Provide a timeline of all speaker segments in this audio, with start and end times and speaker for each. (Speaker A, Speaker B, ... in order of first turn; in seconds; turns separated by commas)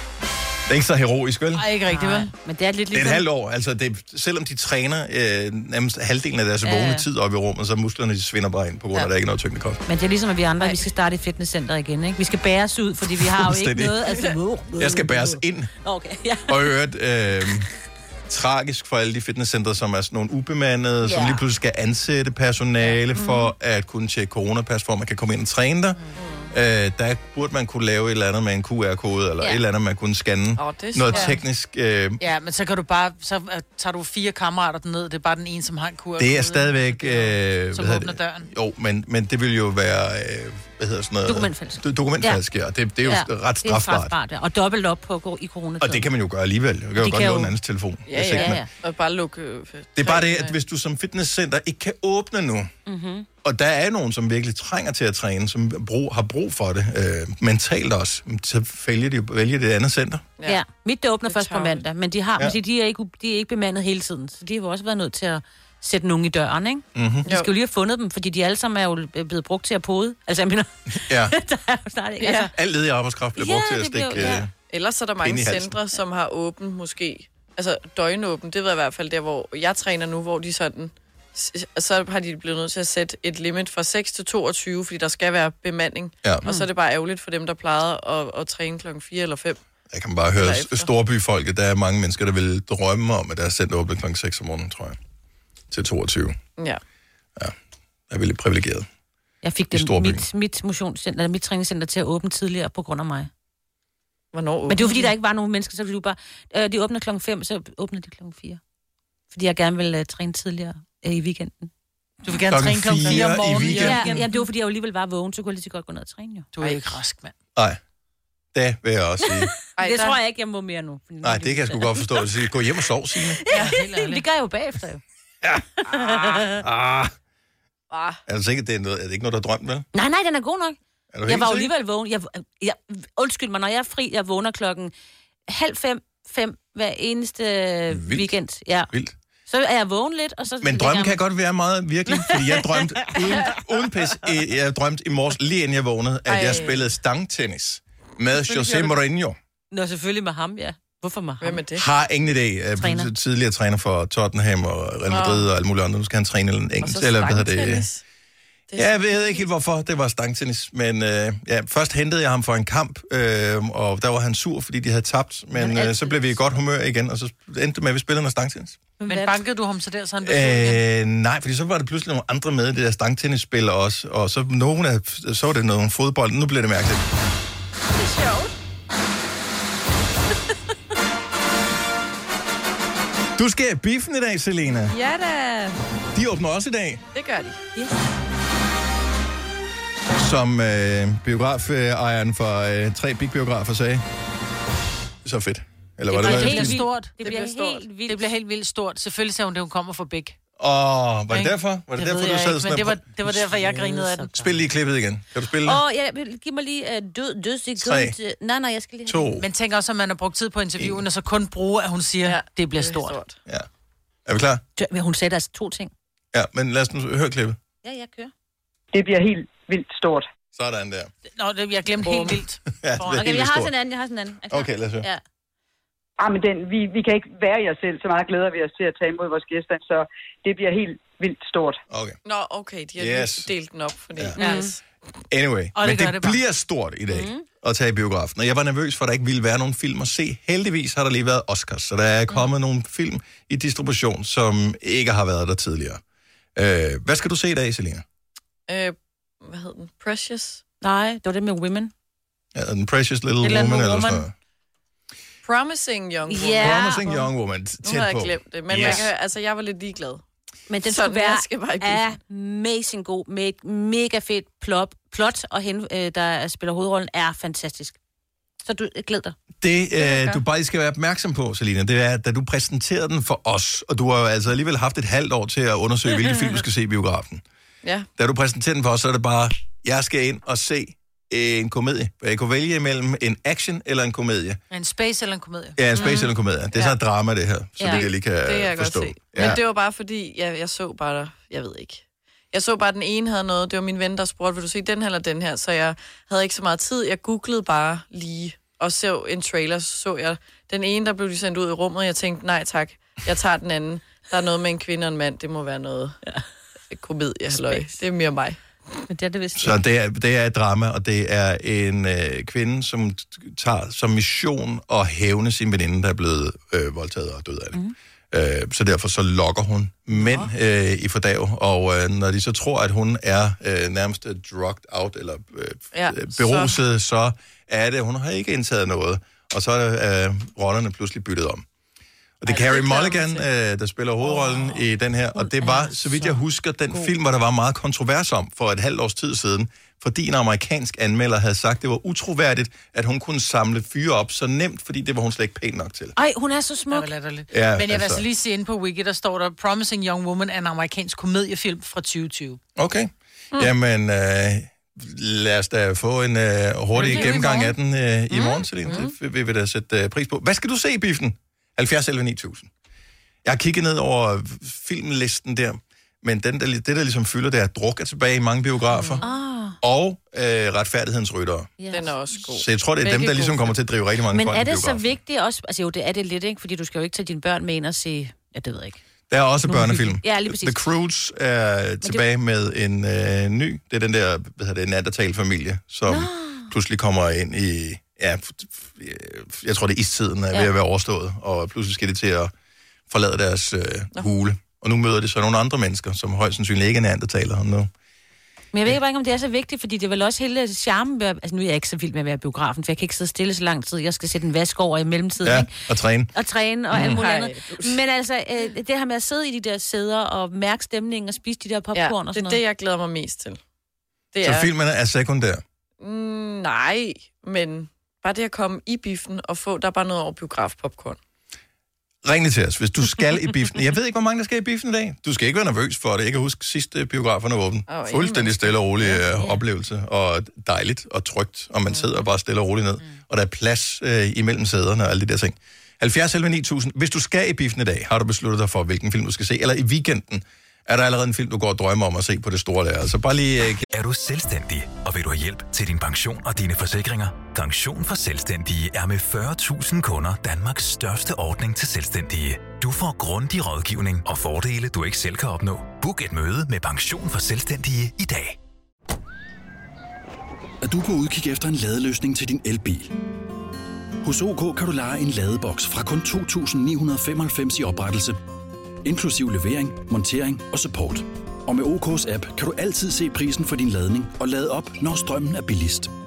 Speaker A: 0.7-1.6, Speaker B: 1.5-2.3, Speaker C: 1.9-3.2, Speaker A: 2.9-9.8, Speaker C: 6.6-7.1, Speaker C: 9.8-16.7, Speaker A: 13.2-14.0, Speaker A: 14.8-15.7, Speaker A: 16.5-17.7, Speaker A: 18.3-26.0, Speaker C: 21.0-21.4, Speaker C: 23.1-23.5, Speaker D: 26.2-26.5, Speaker A: 26.5-32.2, Speaker D: 30.6-31.3, Speaker B: 32.2-38.5, Speaker A: 36.2-44.1, Speaker C: 41.2-42.4, Speaker C: 43.0-46.1, Speaker A: 45.8-48.6, Speaker C: 47.0-47.5, Speaker D: 48.1-50.6, Speaker C: 48.2-48.7, Speaker A: 50.0-52.7, Speaker C: 52.9-53.3, Speaker A: 53.4-60.3, Speaker C: 60.4-72.5, Speaker D: 61.2-61.9, Speaker A: 66.9-67.3, Speaker D: 67.2-67.5, Speaker A: 71.0-71.3, Speaker A: 72.5-74.5, Speaker C: 73.3-74.5, Speaker D: 74.2-89.6, Speaker A: 75.2-75.8, Speaker A: 89.9-95.0, Speaker D: 90.3-90.9, Speaker A: 95.7-96.4, Speaker A: 98.1-98.9, Speaker C: 99.4-103.3, Speaker A: 99.7-100.2, Speaker D: 104.3-105.1, Speaker C: 104.7-108.6, Speaker C: 109.3-111.7, Speaker B: 112.2-114.3, Speaker A: 112.5-114.2, Speaker C: 113.1-116.5, Speaker B: 116.5-117.3, Speaker A: 118.5-119.5, Speaker C: 119.3-122.2, Speaker D: 119.8-120.2, Speaker A: 121.2-123.4, Speaker C: 123.2-125.0, Speaker B: 123.5-124.2, Speaker D: 125.9-126.4, Speaker C: 125.9-126.6, Speaker A: 126.5-127.1, Speaker D: 127.9-128.2, Speaker A: 128.3-129.9, Speaker C: 129.9-134.9, Speaker A: 131.1-131.7, Speaker C: 135.5-138.9, Speaker A: 137.9-138.3, Speaker C: 139.5-141.2, Speaker A: 140.6-149.3, Speaker C: 142.1-143.5, Speaker D: 146.3-146.9, Speaker C: 148.6-148.8, Speaker C: 149.7-151.6, Speaker D: 151.4-151.8, Speaker A: 151.7-157.9, Speaker C: 152.8-153.1, Speaker D: 155.1-155.5, Speaker D: 156.8-158.0, Speaker D: 158.7-159.4, Speaker A: 158.8-168.8, Speaker C: 165.5-166.4, Speaker B: 169.0-170.8, Speaker C: 169.0-169.4, Speaker A: 170.2-177.0, Speaker D: 178.0-178.4, Speaker A: 183.4-184.9, Speaker D: 184.9-185.7, Speaker A: 186.1-187.0, Speaker D: 187.1-187.6, Speaker A: 190.1-194.0, Speaker A: 195.2-196.8, Speaker C: 196.1-198.3, Speaker B: 196.2-197.2, Speaker D: 197.2-197.9, Speaker B: 198.1-200.3, Speaker A: 200.6-203.5, Speaker B: 201.3-204.5, Speaker C: 203.7-204.3, Speaker A: 204.3-205.8, Speaker C: 205.6-209.3, Speaker A: 207.8-208.2, Speaker A: 209.1-209.4, Speaker B: 209.4-213.2, Speaker D: 212.2-213.4, Speaker A: 214.2-214.6, Speaker C: 214.8-215.9, Speaker A: 216.3-217.6, Speaker C: 217.8-218.3, Speaker E: 218.9-220.3, Speaker A: 220.5-221.1, Speaker B: 221.3-223.2, Speaker A: 222.8-223.7, Speaker C: 223.1-225.2, Speaker A: 224.5-225.1, Speaker E: 226.2-231.8, Speaker A: 231.9-232.2, Speaker D: 232.2-234.8, Speaker A: 233.0-233.5, Speaker C: 234.3-234.8, Speaker B: 234.4-234.7, Speaker A: 235.3-246.0, Speaker B: 235.8-236.4, Speaker C: 237.1-237.4, Speaker A: 246.6-248.0, Speaker D: 248.7-250.6, Speaker C: 250.8-251.9, Speaker A: 252.5-254.3, Speaker C: 253.4-254.2, Speaker D: 255.4-257.1, Speaker C: 256.3-257.3, Speaker A: 256.6-259.1, Speaker D: 257.8-260.2, Speaker C: 258.7-259.0, Speaker C: 260.7-268.0, Speaker D: 260.8-262.1, Speaker C: 268.6-269.4, Speaker A: 269.6-277.4, Speaker D: 270.0-270.4, Speaker D: 277.8-278.1, Speaker A: 278.2-284.6, Speaker B: 284.7-285.8, Speaker A: 285.8-289.6, Speaker C: 285.9-286.3, Speaker C: 287.8-288.1, Speaker D: 287.8-306.2, Speaker D: 306.9-308.6, Speaker C: 307.5-308.0, Speaker C: 309.1-309.8, Speaker A: 309.6-317.8, Speaker A: 318.3-331.6, Speaker D: 325.9-326.8, Speaker A: 332.4-346.1, Speaker D: 332.4-333.4, Speaker C: 335.4-337.1, Speaker C: 346.1-347.1, Speaker B: 346.9-352.6, Speaker A: 347.5-348.2, Speaker A: 352.8-362.7, Speaker B: 356.9-357.7, Speaker C: 357.0-357.6, Speaker C: 358.3-358.7, Speaker D: 358.8-359.1, Speaker A: 363.4-369.2, Speaker D: 368.9-369.3, Speaker C: 369.2-369.8, Speaker A: 369.8-371.7, Speaker C: 371.8-372.2, Speaker D: 371.9-373.8, Speaker A: 372.5-375.1, Speaker C: 374.3-379.0, Speaker A: 379.3-392.5, Speaker C: 379.7-380.8, Speaker C: 386.1-386.7, Speaker A: 393.1-397.9, Speaker C: 398.7-405.7, Speaker A: 405.4-406.3, Speaker C: 406.3-412.6, Speaker A: 406.9-407.2, Speaker D: 406.9-408.0, Speaker D: 411.9-413.6, Speaker D: 414.3-414.7, Speaker A: 414.4-415.6, Speaker D: 416.0-421.2, Speaker A: 422.2-443.9, Speaker D: 427.9-429.1, Speaker F: 443.9-458.6, Speaker G: 460.8-463.1, Speaker G: 464.2-468.4, Speaker G: 469.0-476.1